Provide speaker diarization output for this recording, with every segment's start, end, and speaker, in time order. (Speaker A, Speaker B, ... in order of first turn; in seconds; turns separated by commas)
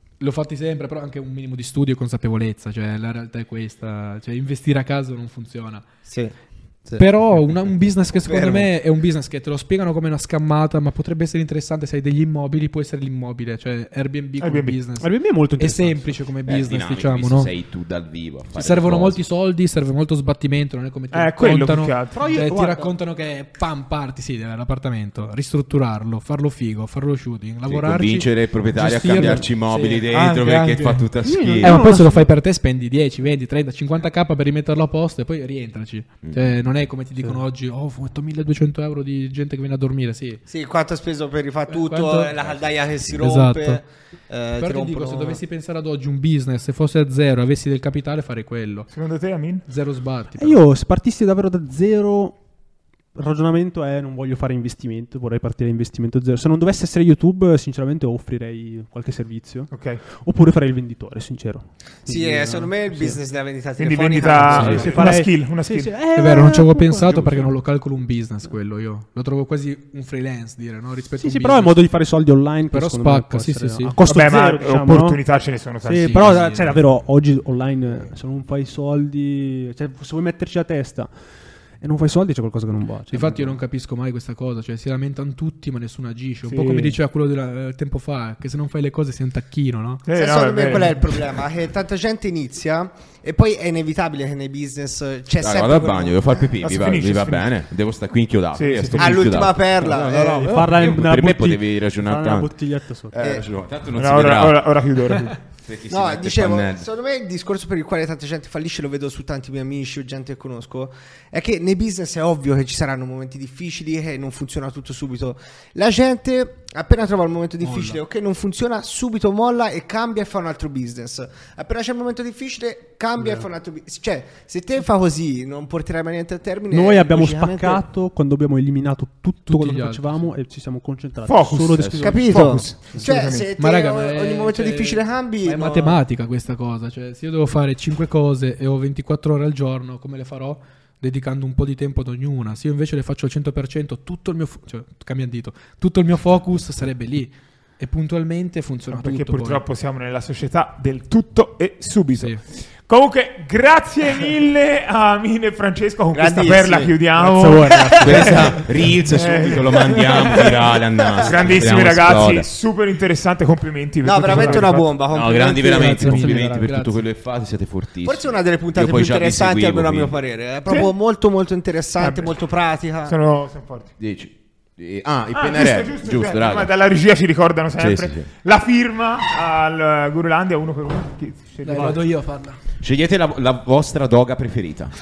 Speaker A: 0.2-5.9, Speaker B: 6.1-6.3, Speaker A: 7.0-17.5, Speaker B: 8.2-8.7, Speaker C: 14.4-14.8, Speaker D: 15.0-16.2, Speaker E: 16.5-19.2, Speaker A: 18.5-40.4, Speaker C: 21.1-22.5, Speaker D: 22.1-22.9, Speaker E: 27.6-31.8, Speaker D: 31.2-32.3, Speaker E: 36.2-36.5, Speaker B: 40.5-45.4, Speaker A: 41.7-42.4, Speaker A: 43.1-43.8, Speaker A: 44.5-48.9, Speaker C: 48.9-49.7, Speaker A: 49.7-50.6, Speaker D: 50.4-52.4, Speaker D: 53.1-63.2, Speaker C: 59.7-60.0, Speaker B: 62.1-65.1, Speaker C: 63.8-65.9, Speaker D: 64.5-67.5, Speaker E: 64.5-65.0, Speaker A: 66.1-71.8, Speaker D: 71.2-75.2, Speaker A: 72.7-73.9, Speaker C: 74.0-76.5, Speaker D: 75.8-81.1, Speaker A: 76.0-76.7, Speaker D: 81.8-83.6, Speaker A: 83.1-90.0, Speaker C: 86.5-87.0, Speaker C: 90.1-91.1, Speaker B: 90.1-96.2, Speaker E: 95.4-102.6, Speaker C: 96.6-97.5, Speaker C: 98.5-99.4, Speaker B: 99.0-100.5, Speaker D: 100.4-103.2, Speaker E: 103.1-104.7, Speaker B: 103.2-103.5, Speaker C: 103.9-105.4, Speaker E: 105.7-106.9, Speaker B: 105.9-127.8, Speaker A: 117.6-118.0, Speaker D: 123.2-123.5, Speaker D: 126.7-132.4, Speaker A: 129.5-130.3, Speaker C: 131.3-133.5, Speaker E: 131.8-132.2, Speaker B: 132.0-136.0, Speaker A: 133.6-149.6, Speaker C: 148.9-160.5, Speaker A: 152.2-152.4, Speaker B: 156.1-157.0, Speaker D: 157.2-158.6, Speaker B: 157.7-158.4, Speaker E: 158.0-162.5, Speaker B: 159.5-161.8, Speaker C: 161.2-164.8, Speaker B: 164.0-166.3, Speaker E: 165.1-170.2, Speaker A: 165.7-167.1, Speaker D: 165.8-166.7, Speaker B: 168.0-173.2, Speaker C: 172.0-172.3, Speaker C: 173.1-173.9, Speaker E: 174.0-176.7, Speaker C: 175.3-182.0, Speaker E: 177.8-178.3, Speaker A: 181.6-182.6, Speaker D: 181.7-182.0, Speaker E: 182.8-184.9